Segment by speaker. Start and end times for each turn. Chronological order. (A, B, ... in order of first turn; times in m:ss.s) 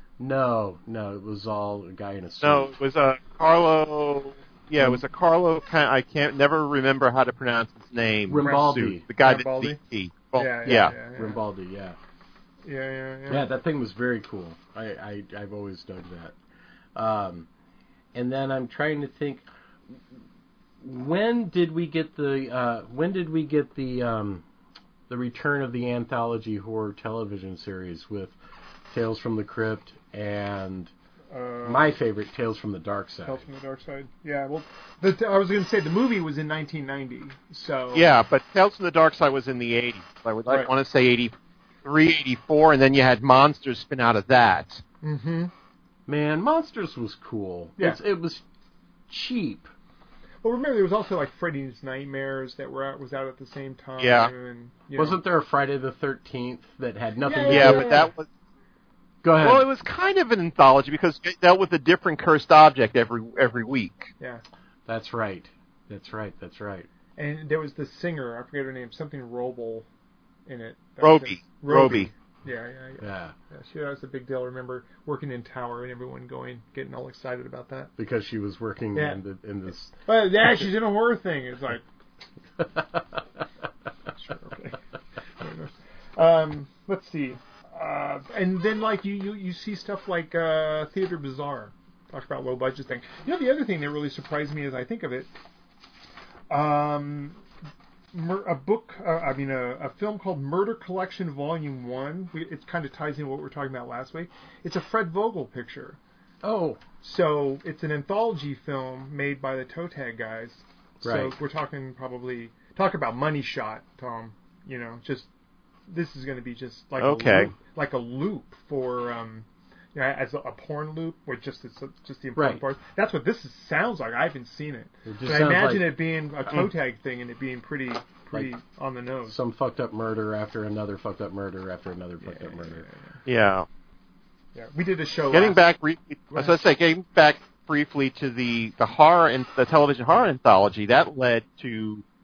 0:00.2-0:02.7 A
0:02.4-0:10.9 B
0:08.3-0:09.0 A
0:08.4-0:09.8 C
0:10.3-0:11.4 C
0:10.6-0:12.0 A
0:12.6-0:13.5 C
0:13.3-0:16.3 A
0:16.9-0:17.5 A
0:18.1-0:19.4 A
0:20.8-0:24.4 A
0:25.1-0:28.4 A
0:28.9-0:30.9 A
0:31.3-0:32.0 C
0:31.6-0:33.5 A
0:33.2-0:38.1 C
0:37.9-0:44.8 B
0:45.0-0:45.5 C
0:46.1-0:48.4 A
0:49.1-0:49.7 A
0:50.4-0:55.2 C
0:54.0-0:54.3 B
0:55.0-0:58.0 A
0:57.2-0:58.1 C
0:57.5-0:58.3 B
0:59.2-0:59.6 A
0:59.4-1:04.1 B
1:04.9-1:06.9 A
1:07.2-1:09.8 C
1:10.4-1:17.9 C
1:11.0-1:12.1 B
1:13.0-1:13.3 A
1:18.0-1:19.9 A
1:18.9-1:19.2 C
1:20.0-1:21.8 C
1:22.6-1:23.2 A
1:24.2-1:24.8 C
1:25.4-1:35.3 C
1:36.5-1:37.4 C
1:38.1-1:46.0 C
1:46.4-1:46.8 A
1:47.0-1:55.3 C
1:51.0-1:51.3 A
1:55.9-2:09.4 C
1:57.0-1:57.5 B
2:02.4-2:02.6 A
2:05.0-2:05.9 A
2:09.3-2:12.9 A
2:12.2-2:13.2 C
2:13.2-2:13.7 B
2:14.5-2:15.6 C
2:15.3-2:22.0 B